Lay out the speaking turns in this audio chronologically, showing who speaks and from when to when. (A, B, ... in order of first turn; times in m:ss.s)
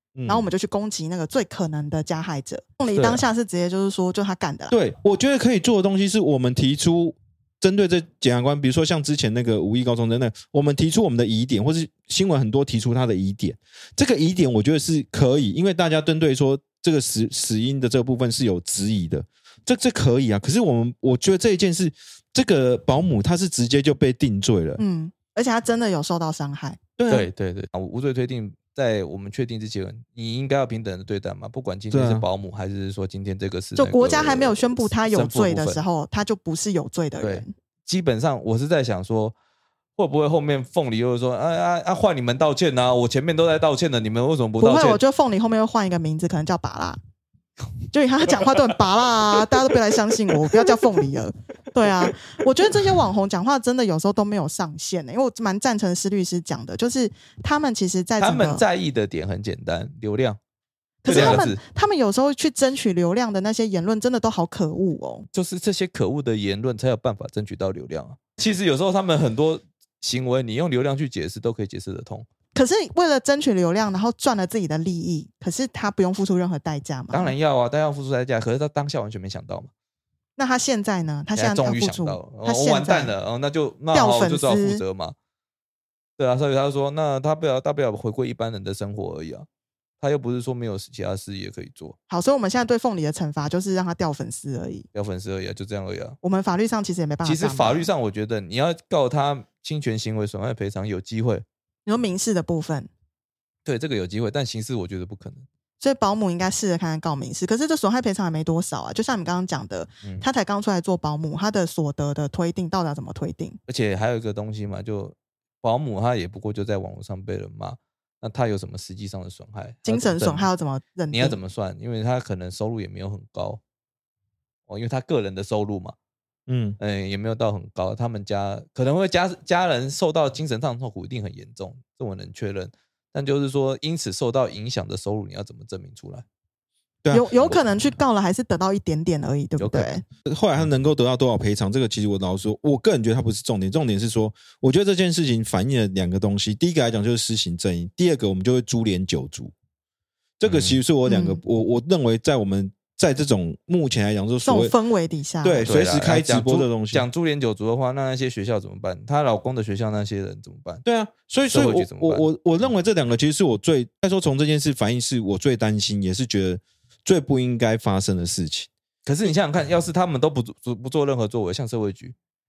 0:00.2-0:00.5 A
0:00.3-0:04.8 B
0:04.7-0:24.8 A
0:24.8-0:26.8 B
0:27.0-0:27.3 A
0:27.1-0:35.8 C
0:31.9-0:32.2 A
0:33.8-0:37.5 B
0:37.2-0:39.3 C
0:40.0-0:45.0 C
0:44.6-0:47.0 B
0:47.9-0:58.6 B
0:48.3-0:48.8 C
0:49.4-0:51.1 C
0:58.2-1:00.4 C
1:01.0-1:05.3 B
1:01.1-1:01.4 A
1:01.1-1:01.6 C
1:05.3-1:12.2 C
1:12.5-1:17.3 B
1:17.1-1:19.7 C
1:20.4-1:23.1 B
1:21.3-1:25.1 C
1:23.9-1:24.8 B
1:26.2-1:29.4 C
1:30.0-1:32.0 C
1:32.1-1:34.9 B
1:34.9-1:36.2 C
1:36.2-1:37.9 B
1:37.2-1:41.4 C
1:41.8-1:42.9 B
1:43.6-1:45.4 C
1:45.8-1:53.6 B
1:53.7-2:00.5 C
1:59.8-2:01.4 B
2:01.1-2:03.6 C
2:04.7-2:05.9 C
2:06.5-2:06.8 A
2:06.8-2:16.2 C
2:17.0-2:17.3 A
2:17.1-2:20.0 B
2:19.6-2:20.0 C
2:20.2-2:29.5 A
2:30.4-2:34.7 A
2:30.4-2:30.8 C
2:31.0-2:31.4 B
2:34.4-2:35.6 B
2:35.4-2:37.1 A
2:35.6-2:40.8 C
2:40.8-2:48.7 A
2:41.5-2:42.3 C
2:49.0-2:52.1 C